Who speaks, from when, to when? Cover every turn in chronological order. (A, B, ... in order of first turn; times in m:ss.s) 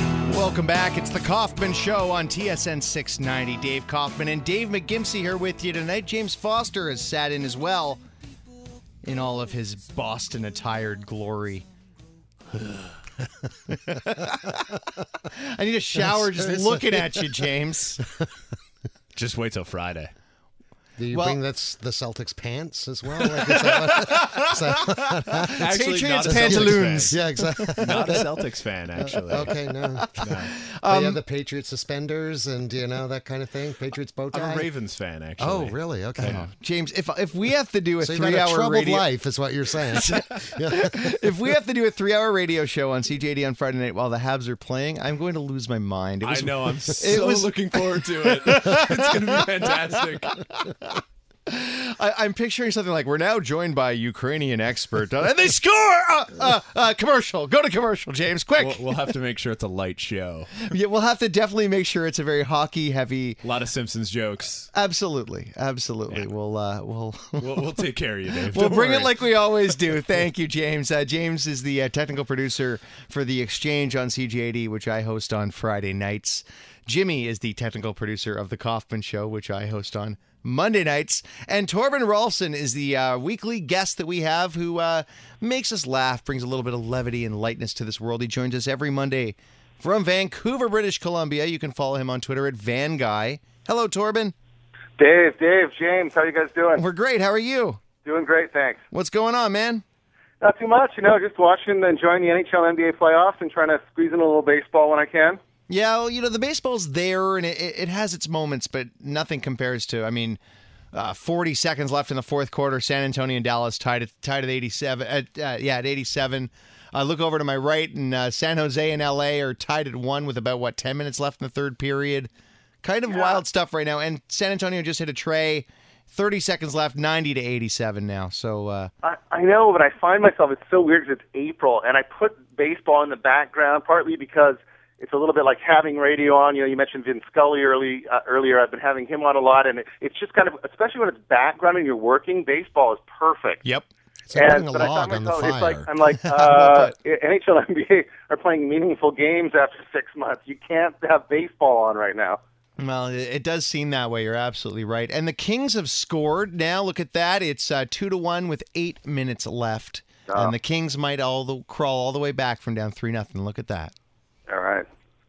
0:00.3-0:08.0 A
0:09.0-0:11.7 A
0:13.7-0:14.8 A
0:15.3-0:18.1 A
0:16.1-0:17.4 B
0:19.2-0:20.1 C
0:21.0-0:28.3 B
0:21.1-0:21.4 A
0:23.2-0:28.3 A
0:25.5-0:30.5 C
0:29.0-0:34.7 B
0:30.2-0:31.2 A
0:34.3-0:36.4 C
0:35.4-0:36.4 B
0:36.2-0:39.0 A
0:38.0-0:41.2 B
0:40.0-0:50.9 A
0:46.2-0:50.5 C
0:51.5-0:59.1 A
0:58.6-1:00.5 C
1:00.6-1:03.4 A
1:03.4-1:04.7 C
1:04.7-1:07.9 A
1:07.4-1:09.2 C
1:08.5-1:34.3 A
1:35.0-1:36.8 D
1:36.8-1:37.8 A
1:38.0-1:38.8 D
1:38.9-1:39.8 A
1:40.4-1:45.4 D
1:45.7-1:50.4 A
1:50.9-2:02.3 A
2:02.8-2:08.9 A
2:03.1-2:03.4 D
2:09.0-2:23.6 D
2:24.3-2:25.9 B
2:24.3-2:32.4 D
2:26.2-2:26.9 A
2:32.8-2:43.9 A
2:44.5-2:44.9 D